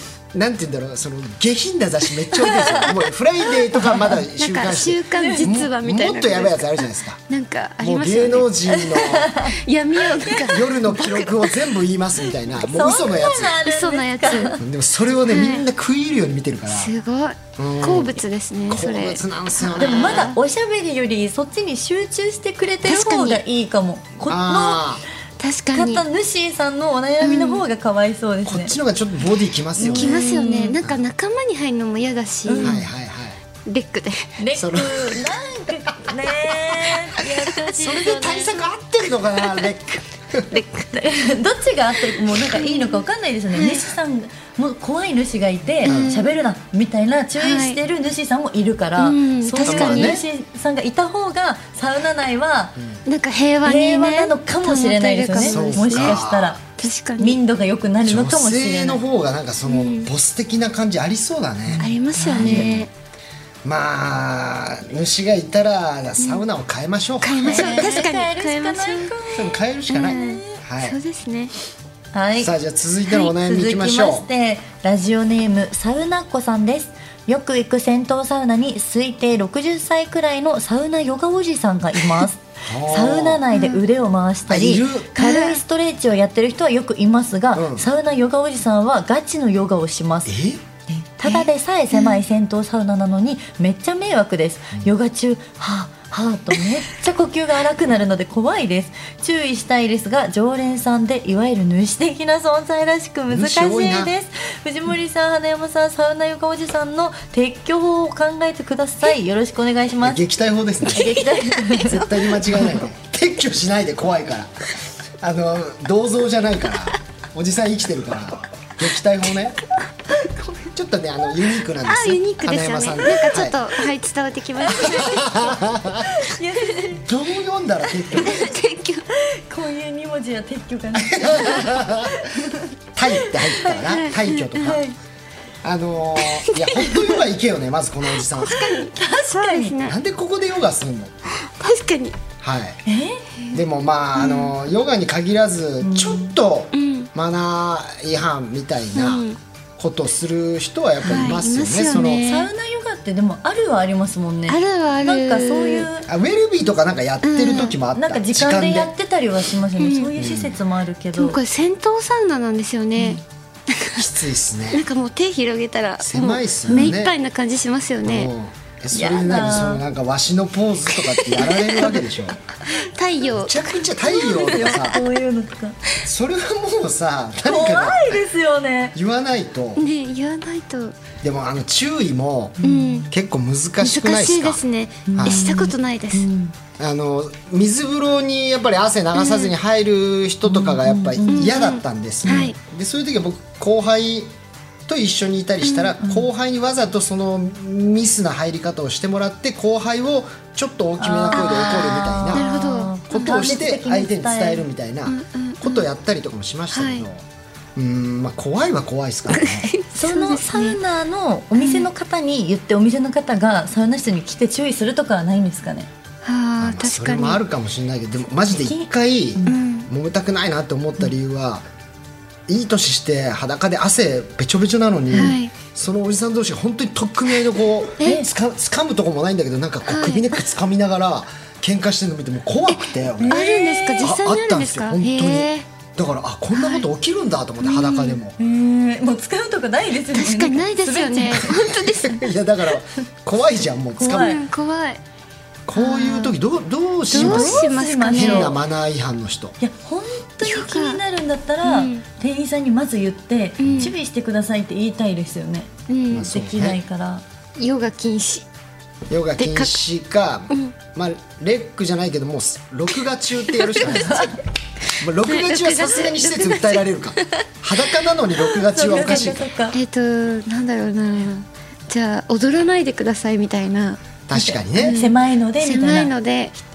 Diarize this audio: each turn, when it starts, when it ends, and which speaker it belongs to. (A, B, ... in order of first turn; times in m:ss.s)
0:00.3-0:07.2 A
0:04.4-0:11.7 B
0:05.2-0:05.6 C
0:07.8-0:09.4 A
0:08.7-0:09.5 C
0:10.1-0:10.4 C
0:10.4-0:13.6 A
0:12.6-0:14.6 C
0:13.6-0:14.6 B
0:14.6-0:16.9 A
0:15.3-0:15.6 B
0:16.7-0:20.4 B
0:17.6-0:20.3 A
0:19.8-0:24.8 C
0:22.8-0:23.4 B
0:24.3-0:25.0 A
0:25.4-0:26.0 B
0:25.7-0:28.7 C
0:27.2-0:27.6 B
0:28.4-0:30.2 A
0:29.8-0:30.7 C
0:29.8-0:32.8 B
0:32.5-0:32.8 C
0:32.6-0:33.4 A
0:33.6-0:34.4 B
0:34.4-0:38.6 C
0:34.5-0:35.3 A
0:37.6-0:40.5 A
0:40.5-0:52.8 C
0:42.5-0:43.0 B
0:43.5-0:43.9 B
0:45.8-0:46.3 B
0:45.8-0:46.2 A
0:47.4-0:47.8 B
0:49.0-0:50.2 B
0:49.6-0:50.2 A
0:53.0-0:56.2 B
0:53.6-0:56.6 C
0:55.5-0:56.6 A
0:56.8-0:57.4 B
0:57.2-0:59.0 C
0:58.0-1:01.8 A
0:59.6-1:00.1 B
1:01.7-1:02.8 C
1:01.8-1:02.9 B
1:02.4-1:02.8 A
1:03.6-1:07.9 A
1:06.2-1:06.4 B
1:07.2-1:09.1 B
1:07.4-1:09.5 C
1:09.3-1:11.0 A
1:09.9-1:11.5 B
1:10.0-1:10.6 C
1:12.1-1:12.5 C
1:12.4-1:14.3 A
1:13.1-1:30.4 C
1:22.6-1:23.4 A
1:23.5-1:23.8 B
1:24.5-1:25.1 A
1:25.2-1:25.6 B
1:27.5-1:27.8 A
1:30.2-1:30.6 A
1:30.9-1:50.2 C
1:31.2-1:32.2 B
1:43.3-1:44.1 A
1:50.0-1:51.2 A
1:50.8-1:52.0 C
1:50.9-1:52.7 B
1:51.8-1:54.5 A
1:55.2-1:59.6 A
2:00.7-2:03.6 A
2:01.8-2:05.5 B
2:04.7-2:07.0 C
2:04.8-2:06.1 A
2:06.9-2:08.4 A
2:08.1-2:09.1 B
2:09.1-2:13.8 C
2:11.0-2:12.2 A
2:12.9-2:14.8 A
2:13.8-2:14.8 B
2:14.6-2:14.9 C
2:15.6-2:18.6 A
2:16.4-2:16.9 B
2:18.3-2:20.0 B
2:18.7-2:19.7 C
2:19.8-2:21.1 A
2:21.4-2:22.2 B
2:22.4-2:22.8 A
2:22.8-2:23.2 C
2:23.5-2:29.2 A
2:24.1-2:24.5 B
2:25.8-2:26.3 C
2:26.7-2:27.1 B
2:28.9-2:29.4 B
2:29.8-2:32.2 A
2:31.0-2:31.4 C
2:31.0-2:32.5 B
2:32.2-2:36.1 C
2:34.5-2:35.9 B
2:36.1-2:38.9 A
2:37.2-2:37.8 B
2:37.9-2:41.4 C
2:39.8-2:40.1 B
2:40.2-2:40.6 A
2:41.2-2:44.0 B
2:44.0-2:44.8 A
2:44.7-2:48.3 B
2:46.0-2:47.1 A
2:46.7-2:46.9 C
2:48.0-2:52.4 A
2:48.9-2:49.8 C
2:51.0-2:52.0 B
2:52.7-2:55.0 B
2:53.2-2:55.0 A
2:54.4-2:55.8 C
2:56.0-2:58.2 A
2:57.4-2:58.9 C
2:58.9-2:59.8 A
2:59.8-3:01.0 B
3:01.2-3:02.6 A
3:02.6-3:03.0 C
3:02.6-3:03.1 B
3:03.1-3:04.6 A
3:03.8-3:06.3 B
3:05.1-3:06.5 C
3:05.2-3:05.4 A
3:06.8-3:14.3 A
3:09.1-3:09.5 B
3:10.4-3:11.5 C
3:11.3-3:12.6 B
3:14.9-3:22.5 A
3:15.6-3:15.9 B
3:21.0-3:24.6 C
3:21.3-3:23.4 B
3:23.1-3:27.2 A
3:25.1-3:25.8 B
3:26.7-3:27.0 B
3:27.8-3:29.7 A
3:29.3-3:30.8 B
3:29.9-3:35.9 C
3:31.6-3:31.9 B
3:36.2-3:37.4 B
3:36.6-3:41.6 A
3:39.4-3:39.9 B
3:42.5-3:53.4 A
3:45.1-3:45.5 B
3:48.0-3:48.2 B
3:49.9-3:50.2 B
3:52.7-3:55.6 B
3:53.2-3:54.0 C
3:54.0-3:58.4 A
3:56.5-3:56.8 B
3:57.6-3:58.2 B
3:58.4-4:01.6 C
4:00.1-4:02.3 B
4:02.1-4:04.3 A
4:04.0-4:04.4 C
4:04.1-4:05.0 B
4:05.7-4:09.6 A
4:05.8-4:06.3 B
4:07.1-4:08.5 C
4:07.1-4:08.6 B
4:09.6-4:17.2 C
4:10.4-4:11.0 B
4:11.6-4:12.0 B
4:13.6-4:13.9 B
4:13.6-4:13.9 A
4:15.9-4:16.3 B
4:16.1-4:16.8 A
4:17.6-4:18.4 B
4:19.1-4:24.3 A
4:19.4-4:19.7 B
4:23.6-4:24.2 B
4:23.8-4:24.4 C
4:25.0-4:29.4 A
4:25.2-4:27.4 B
4:28.7-4:29.8 C
4:29.0-4:34.0 B
4:34.3-4:35.0 A
4:34.3-4:36.1 C
4:34.7-4:36.6 B